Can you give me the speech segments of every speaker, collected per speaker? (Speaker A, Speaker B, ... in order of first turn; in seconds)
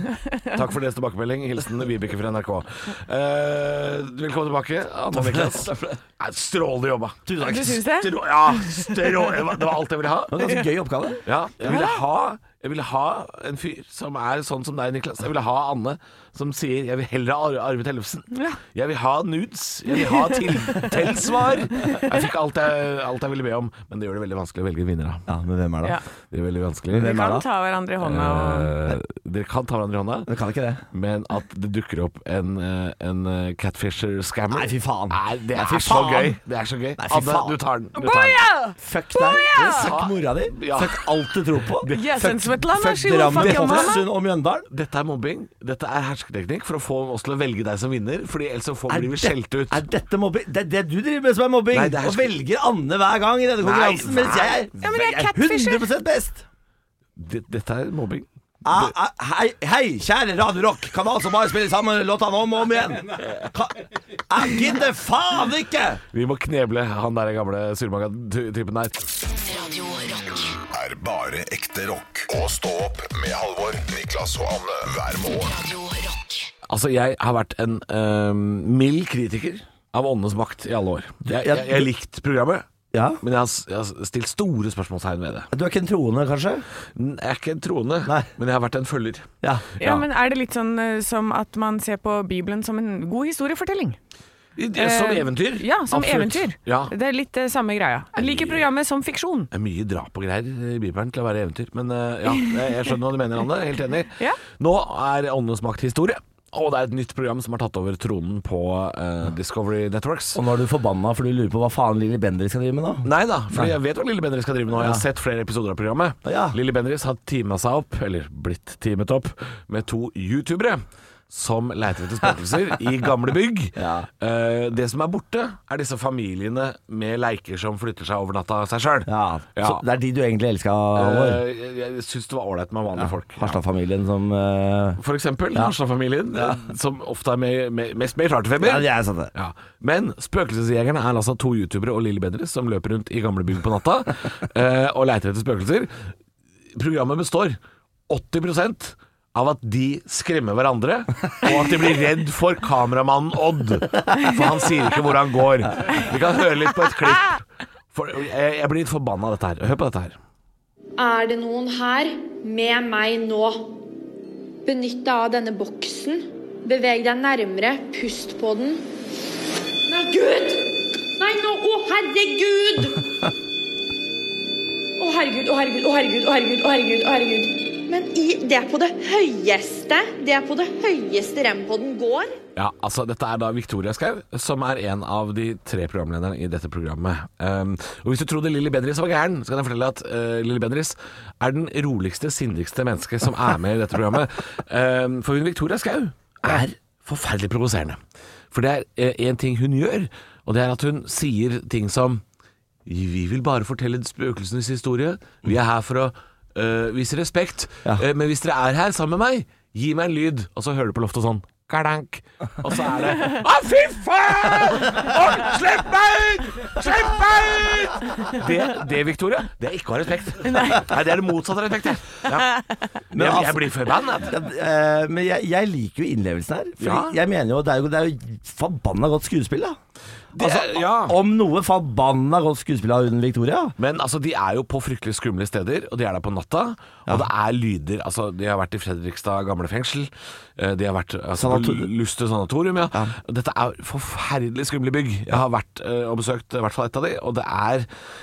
Speaker A: 0.1-0.5, 7.4-9.0, 11.7-12.0, 18.3-18.6, 19.9-20.9, 27.0-28.7, 38.0-39.9, 41.9-44.0, 54.7-55.8, 89.8-94.0, 94.8-99.5, 220.4-220.9
Speaker B: 0.5-7.2, 7.8-10.4, 11.3-25.2, 26.3-27.1, 28.0-30.3, 30.9-38.4, 39.6-41.0, 41.8-42.0, 43.3-43.9, 44.7-49.8, 51.7-52.4, 53.6-54.6, 57.2-58.9, 66.1-69.0, 76.7-82.7, 83.2-85.5, 87.0-89.3, 89.8-90.0, 94.6-96.9, 98.2-98.6, 99.5-110.4, 113.0-129.8, 130.9-133.6, 135.0-145.9, 146.8-147.6, 148.1-160.2, 182.6-198.0, 198.5-202.2, 202.9-222.6, 223.1-224.4, 226.8-227.2, 230.3-231.2, 233.8-247.9
Speaker C: 5.1-6.0, 7.3-7.8, 10.3-11.8, 25.3-26.0, 26.9-27.4, 30.3-30.8, 34.5-36.4, 37.0-37.5, 38.8-44.7, 48.9-56.5, 58.6-66.0, 81.3-81.9, 82.9-83.2, 85.5-86.7, 110.3-113.7, 114.8-115.0, 116.2-116.6, 123.8-124.1, 129.1-131.4, 133.0-135.0, 136.3-136.6, 138.6-139.3, 196.4-196.7, 223.1-229.8, 230.4-233.8, 241.4-241.9
Speaker D: 69.4-70.6, 75.5-76.5
Speaker E: 70.7-75.6
Speaker F: 161.0-163.8, 164.7-168.8, 169.9-173.0, 175.0-182.4